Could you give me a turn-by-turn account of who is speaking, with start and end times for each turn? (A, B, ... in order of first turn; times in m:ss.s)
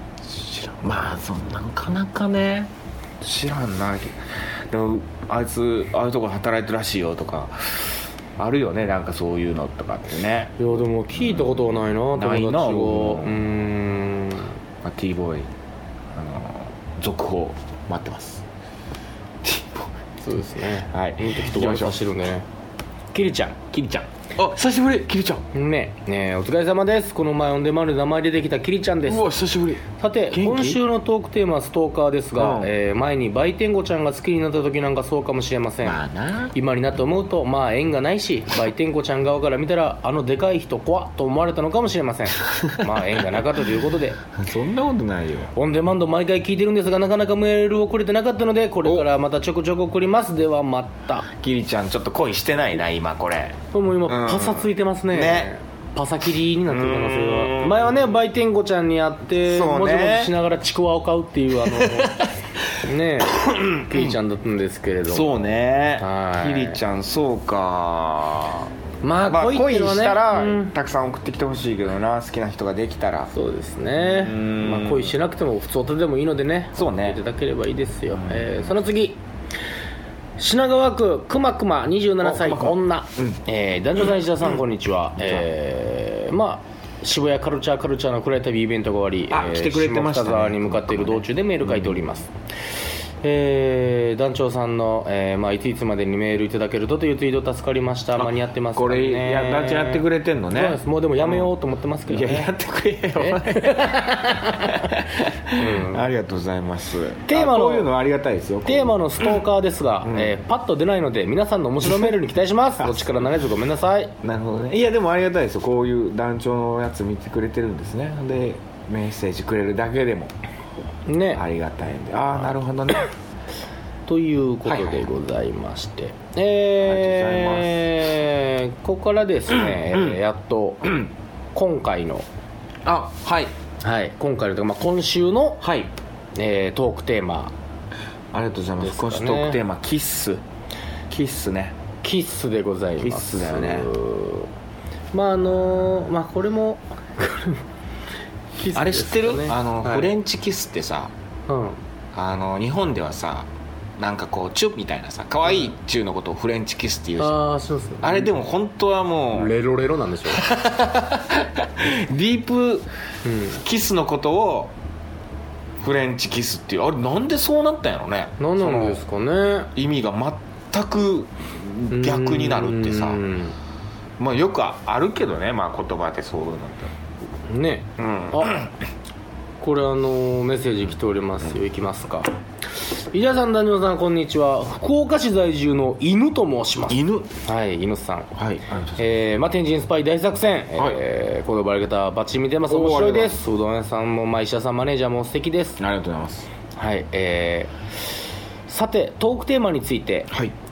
0:00.2-0:13.4 A
0:10.6-0:14.6 B
0:14.8-0:15.5 A
0:16.1-0:18.4 A
0:19.4-0:19.9 A
0:20.2-0:22.4 B
0:20.9-0:22.0 A
0:23.1-0:24.0 B
0:24.3-0:25.4 A
0:25.5-0:29.3 B
0:29.0-0:30.8 A
0:30.0-0:36.0 B
0:32.4-0:32.7 A
0:35.8-0:36.5 A
0:36.5-0:44.2 B
0:44.3-0:45.5 A
0:45.5-0:51.3 B
0:51.3-0:55.5 A
0:53.7-1:02.2 B
0:56.6-0:58.1 A
0:59.4-1:00.3 A
1:01.6-1:02.3 A
1:02.8-1:06.8 B
1:03.4-1:04.2 A
1:05.1-1:08.7 A
1:09.0-1:10.7 B
1:09.3-1:13.3 A
1:13.3-1:19.2 B
1:14.0-1:15.1 A
1:16.7-1:17.2 A
1:18.1-1:18.7 A
1:20.4-1:32.3 B
1:22.2-1:23.4 A
1:25.2-1:25.4 A
1:29.3-1:32.0 A
1:33.2-1:42.5 B
1:38.2-1:41.5 A
1:42.1-1:49.4 A
1:43.2-1:44.9 B
1:45.5-1:46.0 B
1:47.3-1:47.9 B
1:48.6-1:54.1 B
1:50.0-1:50.3 A
1:51.8-1:52.1 A
1:52.8-1:53.1 A
1:54.2-2:00.3 A
2:01.1-2:01.4 B
2:01.3-2:03.1 A
2:04.1-2:11.0 B
2:04.6-2:05.0 A
2:06.8-2:07.8 A
2:11.5-2:12.2 B
2:12.8-2:13.5 A
2:13.8-2:15.6 B
2:15.6-2:15.9 A
2:16.3-2:17.5 B
2:18.3-2:20.4 A
2:18.8-2:19.6 B
2:21.1-2:21.8 A
2:22.0-2:24.5 B
2:23.0-2:23.9 A
2:25.1-2:27.6 B
2:28.6-2:30.1 B
2:28.7-2:31.1 A
2:31.5-2:31.8 B
2:32.1-2:37.4 A
2:37.2-2:38.3 B
2:38.0-2:39.5 A
2:39.3-2:40.4 B
2:40.3-2:42.9 A
2:43.2-2:43.6 B
2:43.5-2:44.7 A
2:45.8-2:49.0 A
2:48.4-2:49.7 B
2:49.7-2:53.2 A
2:51.9-2:53.5 B
2:54.2-2:56.9 A
2:57.5-2:58.6 B
2:58.0-2:58.7 A
2:59.6-3:02.3 B
3:03.1-3:08.3 B
3:06.9-3:07.3 A
3:08.3-3:09.0 A
3:09.0-3:15.8 B
3:12.7-3:13.4 A
3:15.8-3:16.5 A
3:16.7-3:17.7 B
3:18.7-3:20.3 B
3:20.3-3:20.5 A